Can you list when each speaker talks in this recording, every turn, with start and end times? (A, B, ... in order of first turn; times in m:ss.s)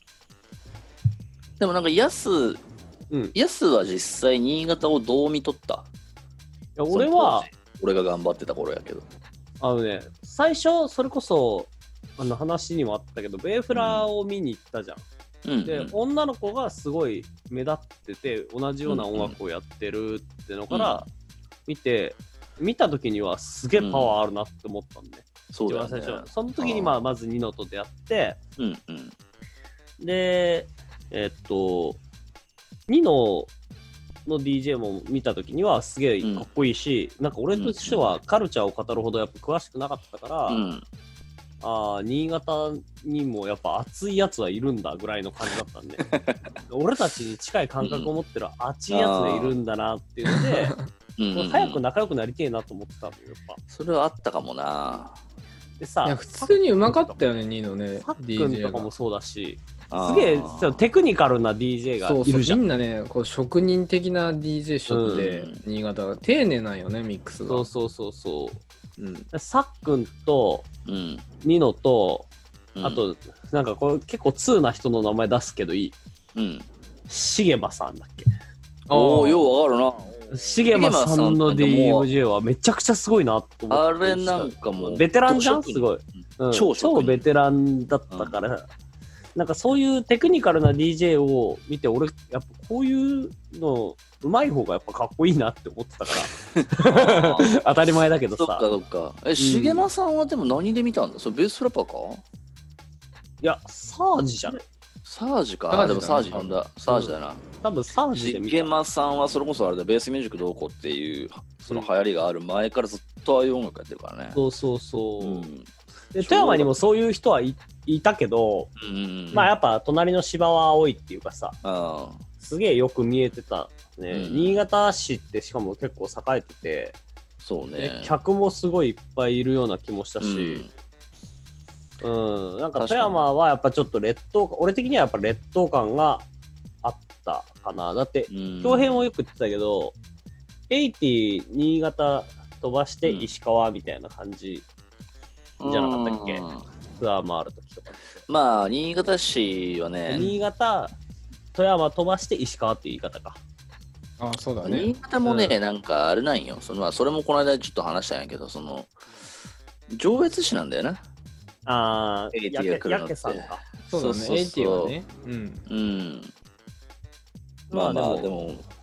0:01.6-0:02.6 A
0:03.3-0:05.9 A
0:06.8-0:07.5 B
0:06.9-0:09.0 A
0:09.6-0:15.0 B
0:13.7-0:14.1 A
0:15.4-0:15.9 A
0:15.6-0:21.0 B
0:18.8-0:19.3 A
0:20.7-0:21.0 A
0:21.7-0:28.4 B
0:23.8-0:24.2 A
0:25.5-0:26.9 A
0:28.6-0:29.1 A
0:30.0-0:32.0 B
0:32.9-0:33.5 B
0:34.2-0:40.6 B
0:37.6-0:38.1 A
0:40.5-0:40.8 A
0:41.6-0:46.0 B
0:46.0-0:46.4 A
0:46.7-0:50.8 B
0:47.8-0:48.1 A
0:48.9-0:49.5 A
0:50.3-0:50.8 C
0:51.2-0:51.8 A
0:51.3-0:53.6 B
0:53.7-0:55.2 A
0:55.8-0:57.3 B
0:56.0-0:58.9 C
0:58.0-1:02.6 B
0:59.9-1:00.8 A
1:02.0-1:07.7 C
1:04.9-1:05.3 B
1:05.1-1:05.6 A
1:07.5-1:08.6 B
1:09.0-1:09.2 C
1:09.3-1:10.6 B
1:10.8-1:11.2 A
1:11.4-1:12.3 B
1:12.8-1:13.0 A
1:12.8-1:15.9 B
1:16.4-1:16.7 A
1:17.1-1:18.3 B
1:18.9-1:19.5 C
1:18.9-1:22.1 A
1:20.3-1:28.7 B
1:23.7-1:25.9 A
1:26.5-1:27.2 A
1:28.1-1:28.4 A
1:29.3-1:38.6 B
1:36.5-1:37.6 A
1:38.3-1:42.2 A
1:39.4-1:39.9 B
1:43.4-1:44.6 B
1:45.0-1:47.4 A
1:45.7-1:46.6 C
1:46.9-1:48.7 B
1:48.1-1:54.4 A
1:54.3-1:55.5 B
1:55.2-1:56.7 A
1:56.1-1:58.7 B
1:58.8-1:59.5 A
1:59.3-2:01.6 B
2:01.6-2:02.2 A
2:02.4-2:07.0 B
2:04.1-2:04.6 A
2:07.4-2:08.1 A
2:07.8-2:10.6 B
2:10.2-2:10.7 A
2:12.0-2:16.2 B
2:12.8-2:13.2 A
2:16.8-2:19.9 B
2:18.3-2:19.1 A
2:20.7-2:24.6 B
2:25.6-2:26.6 A
2:25.6-2:26.4 B
2:27.0-2:28.2 B
2:28.3-2:30.3 A
2:30.1-2:30.9 B
2:31.5-2:33.4 B
2:34.2-2:35.6 C
2:34.6-2:38.9 A
2:39.9-2:41.0 A
2:41.6-2:43.6 B
2:42.3-2:44.9 A
2:43.9-2:45.6 C
2:45.7-2:46.3 A
2:47.7-2:48.3 B
2:47.7-2:48.6 A